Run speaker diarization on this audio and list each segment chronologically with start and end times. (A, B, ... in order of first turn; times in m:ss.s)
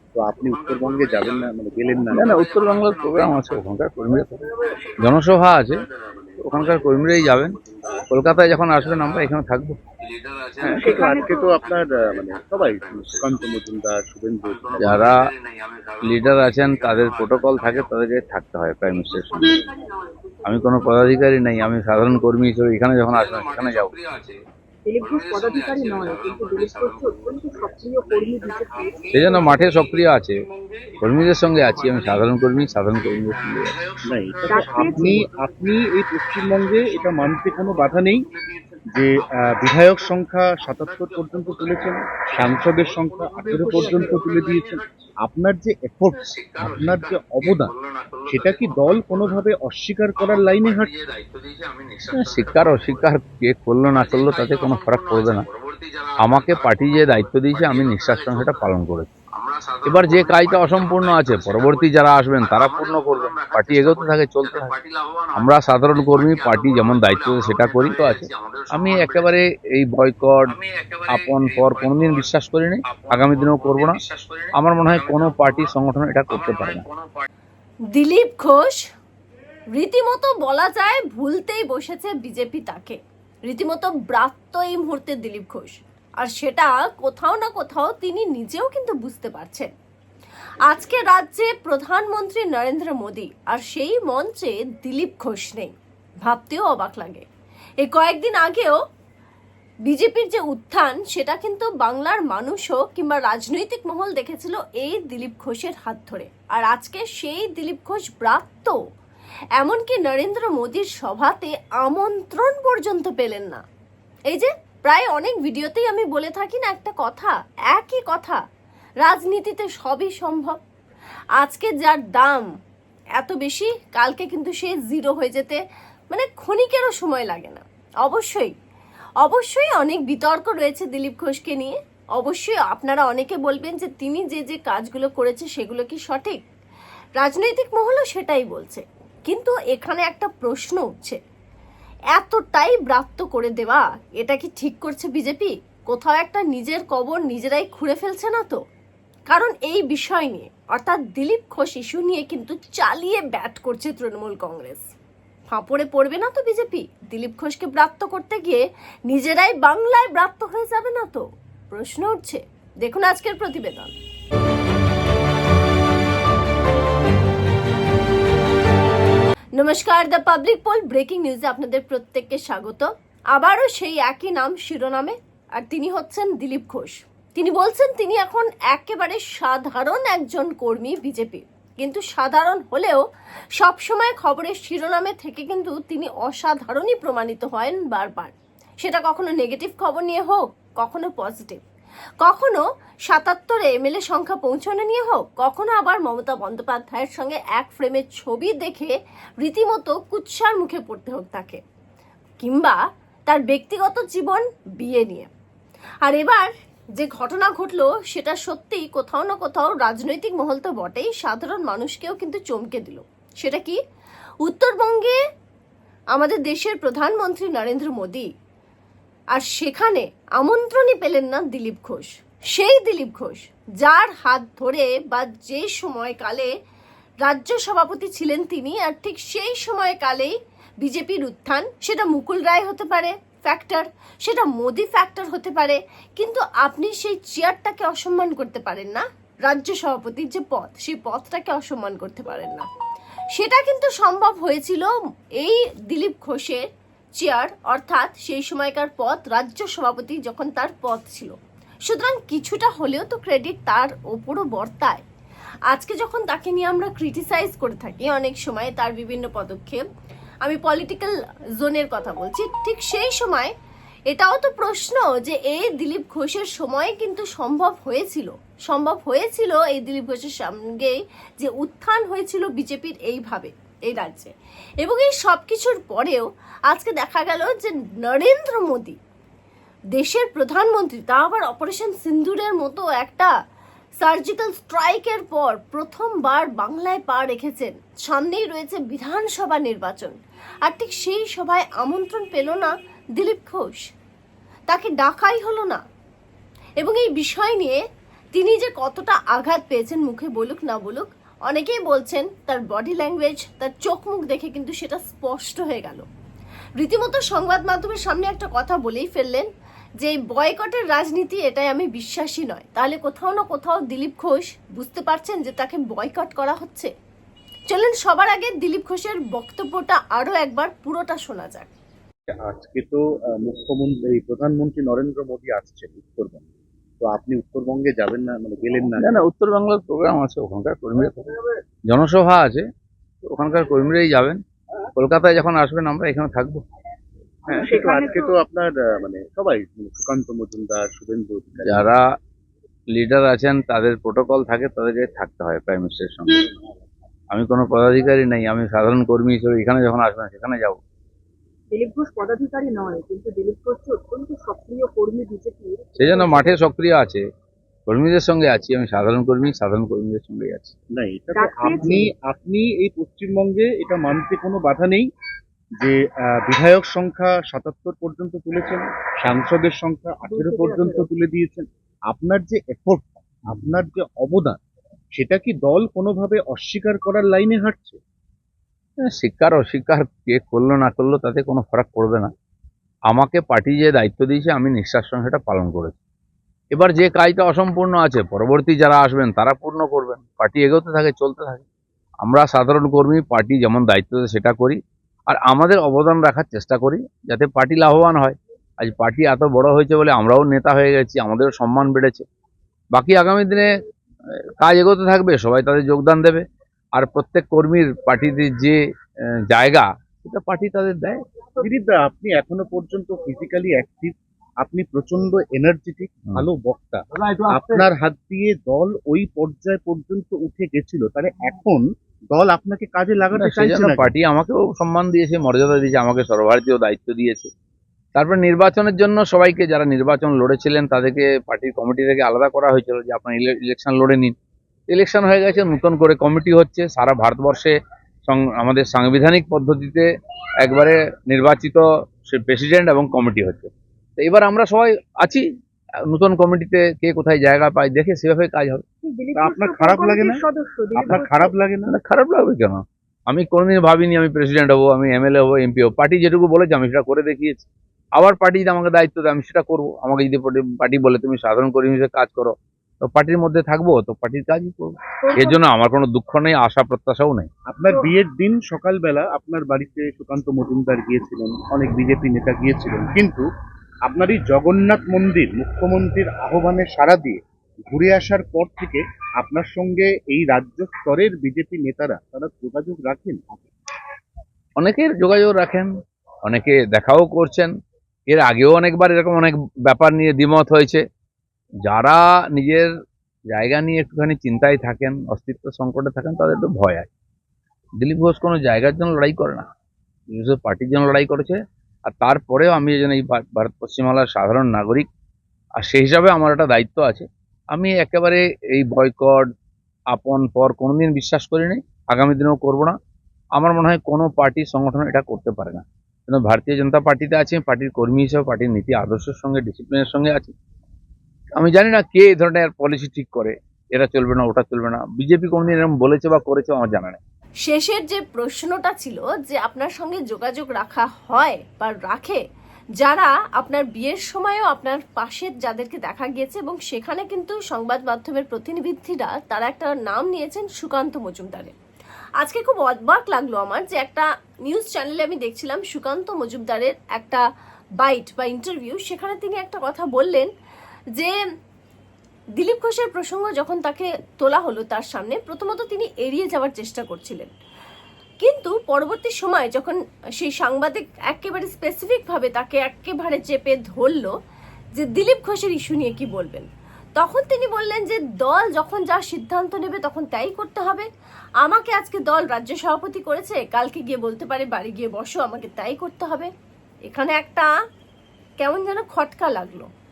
0:00.2-0:02.4 A
0:00.4-0:03.6 B
0:02.1-0:04.4 C
0:04.6-0:05.1 B
0:05.0-0:05.8 C
0:05.6-0:09.4 B
0:06.4-0:07.6 C
0:08.1-0:09.8 C
0:10.0-0:13.7 B
0:10.6-0:15.1 A
0:10.6-0:11.6 D
0:14.4-0:18.0 B
0:14.8-0:15.2 C
0:16.0-0:19.5 C
0:19.0-0:19.6 B
0:19.1-0:20.9 D
0:20.5-0:24.0 C
0:23.1-0:24.4 B
0:24.9-0:29.6 D
0:25.0-0:44.9 B
0:29.1-0:30.4 C
0:31.0-0:33.8 C
0:34.1-0:38.3 A
0:34.5-0:35.3 D
0:38.9-0:47.7 A
0:43.4-0:44.3 D
0:46.2-0:49.4 B
0:48.3-0:50.9 A
0:50.2-0:53.1 B
0:52.1-0:55.5 C
0:53.8-0:58.7 B
0:56.2-0:59.1 C
0:59.3-1:09.4 B
0:59.8-1:04.7 C
1:05.4-1:10.5 C
1:10.5-1:15.8 B
1:11.1-1:14.0 C
1:14.6-1:16.8 C
1:16.3-1:17.3 B
1:17.9-1:18.8 E
1:19.7-1:29.7 E
1:30.6-1:35.7 E
1:36.2-1:37.3 E
1:37.8-1:38.8 E
1:39.9-1:48.8 E
1:49.6-1:53.6 E
1:54.3-1:58.4 E
1:59.0-2:00.6 E
2:01.4-2:02.5 E
2:03.2-2:05.6 E
2:06.1-2:08.5 E
2:09.2-2:16.4 E
2:17.2-2:21.2 E
2:22.1-2:28.6 E
2:29.3-2:34.9 E
2:35.5-2:43.9 E
2:49.6-3:03.0 E
3:03.6-3:11.6 E
3:12.2-3:21.6 E
3:22.4-3:25.3 E
3:26.0-3:33.8 E
3:34.4-3:35.2 E
3:36.1-3:38.3 E
3:39.3-3:46.5 E
3:47.2-4:02.7 E
4:03.3-4:04.9 E
4:05.4-4:06.6 E
4:07.2-4:11.4 E
4:11.9-4:15.0 E
4:15.7-4:19.8 E
4:20.4-4:23.5 E
4:24.1-4:39.0 E
4:39.9-4:43.3 E
4:44.0-4:53.8 E
4:54.7-4:55.8 E
4:56.8-4:57.8 E
4:58.3-5:06.0 E
5:06.8-5:09.5 E
5:10.0-5:16.9 E
5:17.7-5:21.7 E
5:22.5-5:26.4 A
5:27.0-5:29.2 A
5:29.0-5:31.2 C
5:31.9-5:32.6 C
5:33.2-5:34.4 C
5:35.0-5:36.6 C
5:37.5-5:41.9 A
5:37.5-5:38.4 D
5:41.7-5:42.0 C
5:42.9-5:46.5 C
5:47.3-5:50.8 C
5:51.7-5:56.6 D
5:56.0-5:57.2 C
5:57.9-6:00.8 C
6:00.9-6:05.1 A
6:01.3-6:02.1 D
6:05.8-6:14.6 A
6:10.2-6:11.1 D
6:15.2-6:18.0 A
6:19.0-6:22.3 C
6:23.1-6:26.0 C
6:26.7-6:31.6 C
6:32.2-6:42.2 C
6:42.9-6:43.7 C
6:44.6-6:46.4 C
6:47.0-6:48.8 C
6:49.5-6:51.2 C
6:51.6-7:04.1 A
6:57.5-6:57.8 C
7:03.4-7:07.5 C
7:08.2-7:14.3 C
7:14.9-7:17.8 C
7:18.3-7:20.1 C
7:20.6-7:25.4 C
7:26.1-7:28.8 C
7:29.0-7:31.6 D
7:29.4-7:30.4 A
7:31.0-7:31.9 A
7:31.9-7:37.6 C
7:38.2-7:47.5 C
7:45.3-7:45.6 D
7:47.7-7:53.5 A
7:47.9-7:48.1 D
7:54.1-8:03.6 A
8:04.8-8:05.9 C
8:06.5-8:07.7 C
8:08.3-8:11.0 C
8:11.9-8:12.9 C
8:13.5-8:17.1 C
8:18.0-8:19.7 C
8:20.3-8:25.1 C
8:25.8-8:29.5 C
8:30.1-8:32.9 C
8:33.6-8:40.5 C
8:41.6-8:47.2 C
8:47.6-8:52.4 E
8:53.0-9:01.8 E
9:02.4-9:07.4 E
9:08.0-9:10.5 E
9:12.6-9:17.5 E
9:18.4-9:24.3 E
9:25.0-9:31.1 E
9:31.6-9:36.5 E
9:37.1-9:37.7 E
9:38.6-9:39.9 E